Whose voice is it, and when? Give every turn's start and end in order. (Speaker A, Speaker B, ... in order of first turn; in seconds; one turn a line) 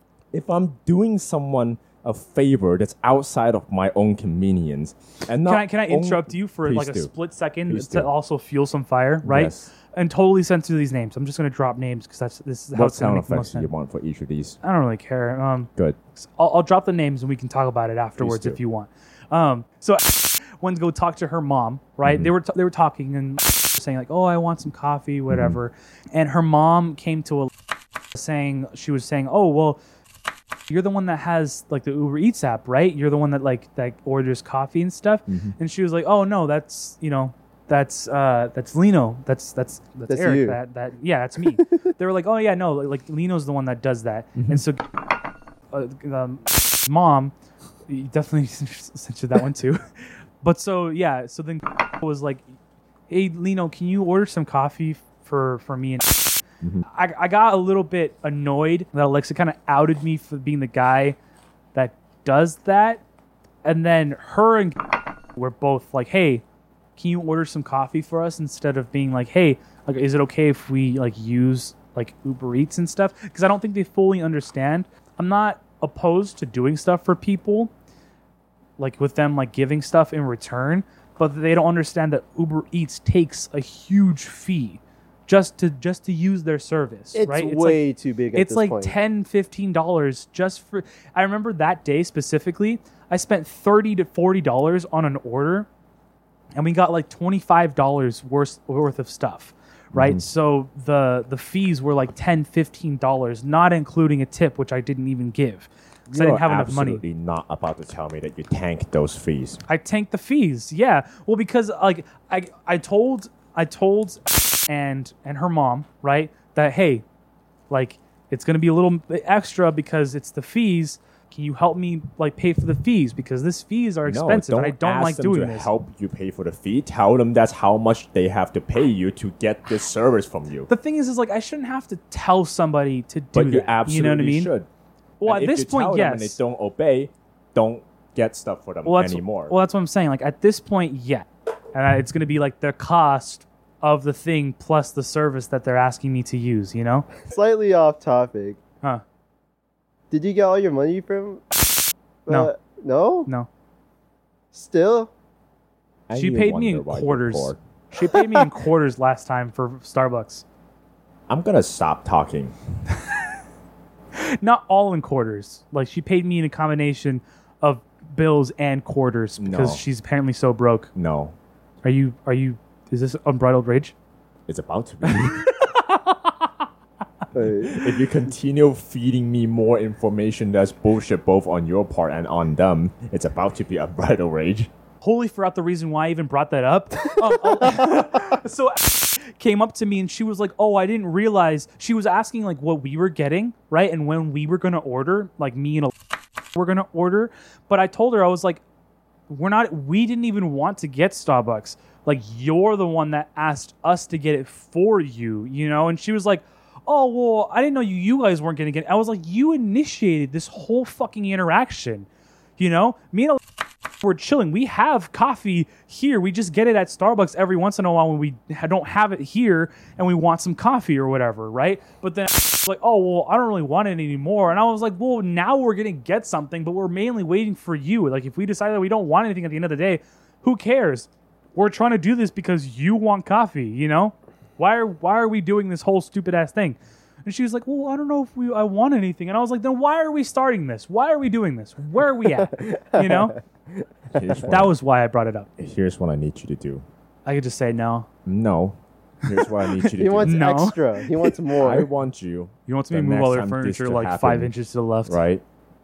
Speaker A: 0.3-7.1
Speaker B: 5.4-13.7
Speaker A: 7.7-8.1
Speaker A: 9.2-9.7
Speaker A: 12.7-14.6
Speaker B: 14.6-27.5
Speaker A: 18.2-18.6
Speaker A: 22.1-22.3
Speaker A: 25.3-25.6
Speaker B: 28.1-29.8
Speaker B: 30.7-44.8
Speaker A: 35.3-35.5
Speaker C: 40.1-40.6
Speaker A: 44.4-44.6
Speaker B: 45.7-47.3
Speaker B: 47.9-49.9
Speaker B: 50.4-52.5
Speaker B: 53.1-61.2
Speaker B: 61.8-63.0
Speaker B: 63.6-64.8
Speaker B: 65.4-66.4
Speaker B: 67.0-77.7
Speaker B: 78.8-87.8
Speaker C: 87.2-89.0
Speaker B: 88.3-95.7
Speaker B: 96.5-107.0
Speaker A: 99.9-100.2
Speaker A: 106.1-109.6
Speaker B: 109.7-117.0
Speaker B: 117.7-125.7
Speaker A: 124.1-130.7
Speaker B: 130.7-134.5
Speaker A: 133.3-134.7
Speaker B: 135.2-136.4
Speaker A: 135.2-139.6
Speaker B: 138.8-147.1
Speaker C: 147.3-148.6
Speaker C: 150.1-151.4
Speaker C: 152.3-153.3
Speaker C: 154.5-155.1
Speaker A: 156.1-157.6
Speaker B: 156.1-160.4
Speaker A: 161.3-162.6
Speaker B: 164.2-170.9
Speaker A: 169.4-169.8
Speaker A: 170.9-171.3
Speaker B: 171.8-173.9
Speaker A: 174.5-175.5
Speaker B: 175.0-176.5
Speaker C: 177.3-177.8
Speaker A: 177.6-184.7
Speaker B: 185.0-195.9
Speaker C: 187.2-188.0
Speaker B: 196.5-198.6
Speaker B: 199.3-213.4
Speaker B: 214.0-243.4
Speaker C: 242.4-243.4
Speaker A: 244.1-244.7
Speaker B: 244.5-245.5
Speaker A: 245.6-246.8
Speaker B: 247.3-248.1
Speaker A: 248.2-250.4
Speaker B: 249.4-251.4
Speaker C: 250.0-251.9
Speaker A: 251.6-255.4
Speaker B: 252.7-255.2